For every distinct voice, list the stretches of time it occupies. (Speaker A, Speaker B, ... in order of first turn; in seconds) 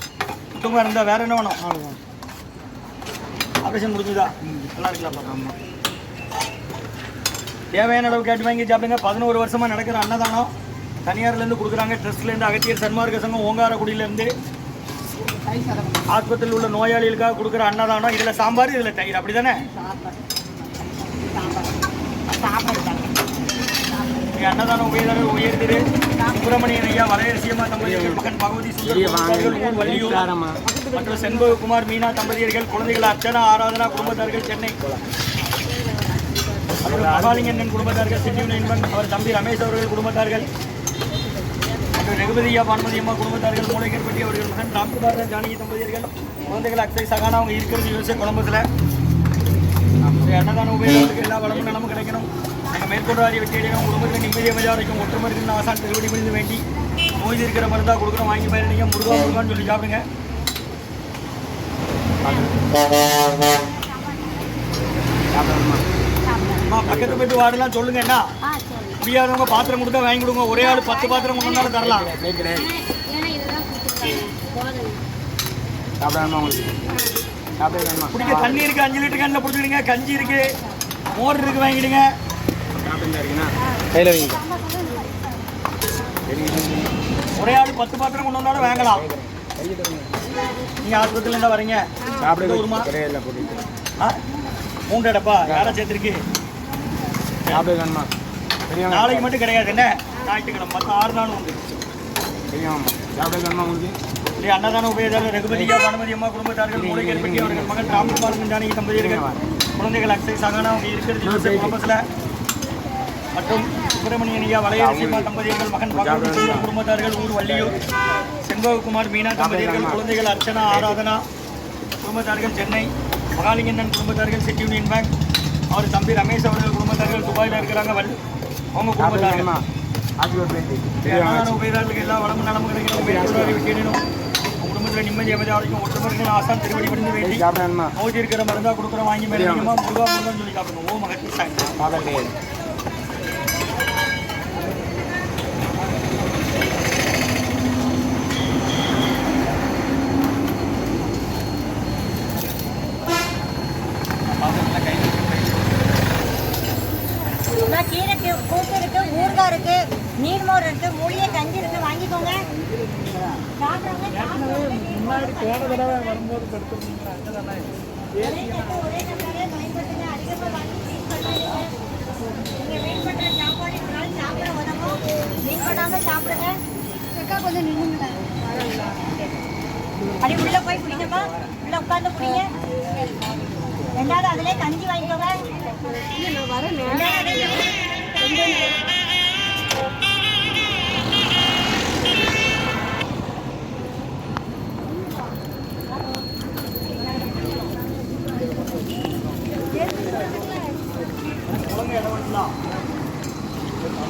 Speaker A: 0.5-1.6, 3.6-5.4, 7.7-10.5, 11.1-14.3, 16.1-19.7, 24.3-30.2, 30.9-34.8, 36.8-40.5, 41.9-48.7, 50.2-56.6, 57.2-60.0, 66.6-68.3, 69.0-72.1, 78.1-80.5, 81.2-82.1, 87.4-89.0, 90.8-92.9, 94.9-96.2, 98.9-101.7, 104.4-109.2, 109.8-112.0, 113.3-117.8, 118.4-121.2, 122.0-125.1, 125.7-128.2, 128.7-129.5, 131.0-134.0, 134.6-137.4, 138.0-141.8, 154.4-155.7, 201.5-202.6
Speaker B: 1.6-2.0, 5.2-5.5, 27.8-28.2, 28.8-30.8, 36.8-37.7, 50.0-50.3, 62.2-62.5, 65.3-65.9, 66.9-67.3, 71.7-72.8, 76.0-76.8, 77.6-78.6, 82.8-84.5, 86.3-86.9, 88.6-90.1, 92.2-93.7, 95.5-95.8, 97.5-98.1, 98.7-99.3, 102.5-104.0, 106.7-108.3, 108.9-109.4, 111.2-111.8, 114.8-115.3, 115.9-116.7, 119.4-120.0, 129.0-129.7, 130.2-131.6, 132.9-133.6, 137.2-137.9, 139.3-139.8, 141.8-142.4
Speaker C: 21.3-21.6, 22.3-23.1, 63.6-64.5, 66.3-66.6, 68.5-69.0, 70.7-71.6, 72.7-75.0, 84.5-85.2, 157.7-162.5, 163.6-167.1, 168.2-171.8, 172.5-176.6, 177.2-178.2, 180.2-182.5, 183.9-188.8